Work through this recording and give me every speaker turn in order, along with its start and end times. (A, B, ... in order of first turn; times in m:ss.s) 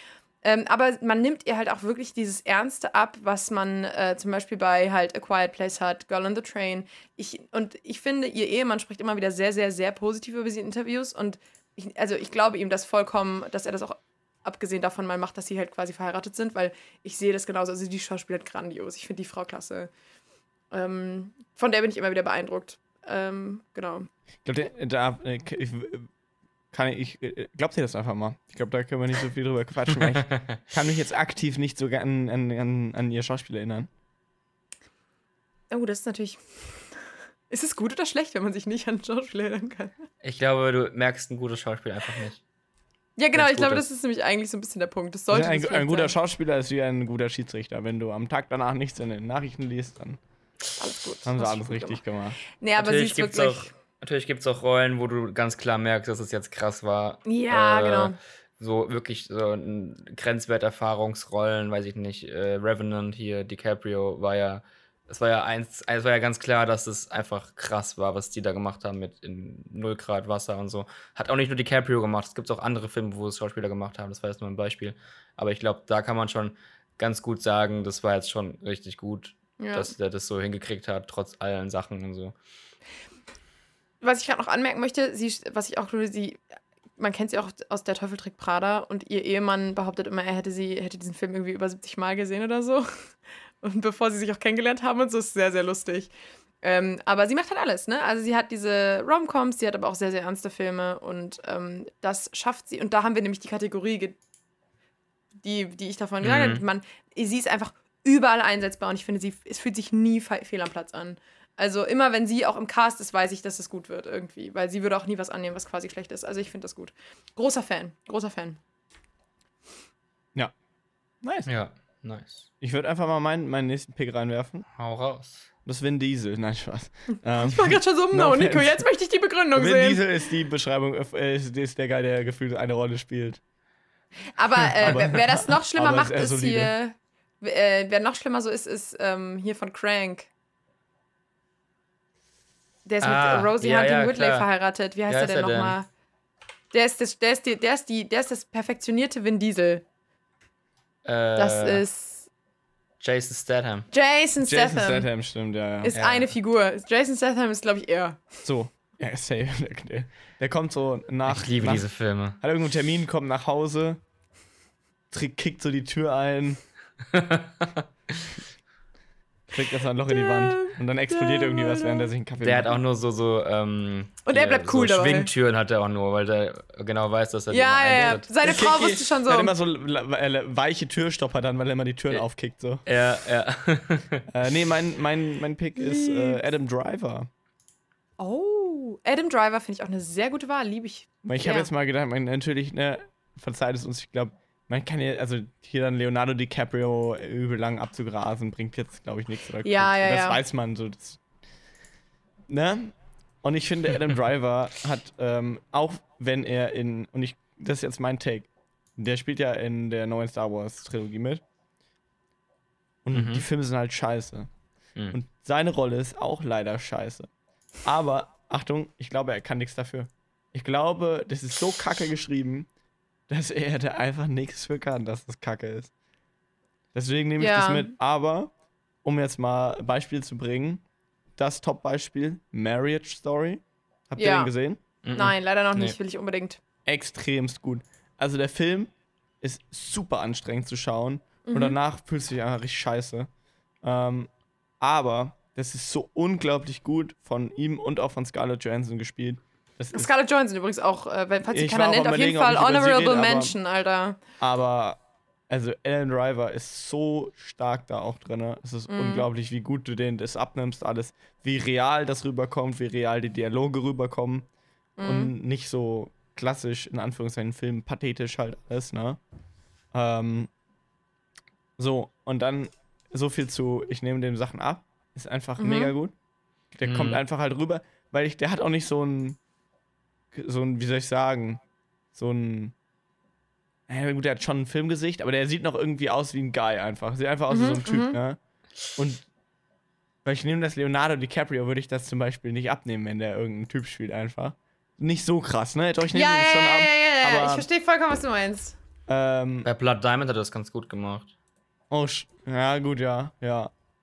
0:00.4-0:19.9 A
0:20.7-0:24.1 A
0:24.4-0:26.1 B
0:26.7-0:33.9 B
0:35.7-0:36.9 A
0:37.5-0:39.9 A
0:40.2-0:42.4 C
0:43.2-0:46.1 A
0:43.3-0:43.8 C
0:45.3-0:50.2 B
0:50.8-0:52.0 A
0:51.2-0:52.4 B
0:52.6-0:53.7 A
0:52.8-1:22.3 C
0:57.2-0:58.2 A
1:19.6-1:19.9 A
1:24.0-1:26.4 A
1:27.0-1:32.9 A
1:33.6-1:44.2 A
1:45.4-1:58.6 A
1:46.2-1:46.6 C
2:01.2-2:01.5 B
2:01.4-2:02.5 C
2:02.6-2:04.6 B
2:04.8-2:05.5 C
2:05.6-2:08.8 B
2:07.4-2:10.0 A
2:09.5-2:13.4 B
2:14.3-2:20.3 A
2:14.8-2:16.7 B
2:22.8-2:25.9 A
2:23.0-2:24.5 C
2:25.1-2:25.8 C
2:26.7-2:29.8 A
2:31.0-2:31.8 C
2:31.4-2:32.3 A
2:33.0-2:33.9 C
2:33.9-2:35.1 A
2:34.4-2:36.0 B
2:35.8-2:38.2 A
2:35.9-2:36.3 C
2:38.4-2:41.8 B
2:41.3-2:42.4 C
2:42.4-2:44.0 B
2:45.1-2:46.6 B
2:47.1-2:48.2 C
2:49.5-2:52.8 B
2:50.1-2:52.1 A
2:52.4-2:58.3 C
2:54.2-2:55.3 A
2:57.5-2:59.5 A
2:58.4-3:02.8 B
3:02.8-3:04.2 C
3:04.3-3:07.3 B
3:05.8-3:06.4 A
3:08.2-3:11.7 A
3:11.2-3:21.2 B
3:19.6-3:20.4 A
3:22.5-3:31.4 B
3:33.0-3:34.5 B
3:33.1-3:33.4 C
3:35.1-3:37.3 B
3:37.8-3:42.7 B
3:43.3-3:45.9 B
3:46.9-3:48.5 B
3:47.4-3:47.9 A
3:49.0-3:50.8 B
3:51.4-3:54.8 B
3:54.2-3:54.5 A
3:55.0-3:56.0 C
3:55.1-3:56.6 A
3:56.8-4:03.3 B
4:01.4-4:01.8 A
4:03.8-4:10.1 B
4:09.9-4:14.2 A
4:11.5-4:13.5 B
4:14.4-4:24.5 B
4:18.9-4:19.3 A
4:25.0-4:25.3 A
4:25.0-4:29.2 B
4:29.9-4:30.5 B
4:31.8-4:36.1 B
4:35.6-4:35.9 A
4:36.7-4:39.4 B
4:36.8-4:37.2 C
4:40.3-4:41.6 B
4:42.1-4:42.7 B
4:43.9-4:48.4 B
4:47.5-4:48.2 A
4:49.0-4:49.2 B
4:50.2-4:57.7 B
4:56.1-4:58.8 A
4:59.1-4:59.7 B
4:59.6-5:01.3 C
5:01.9-5:03.7 B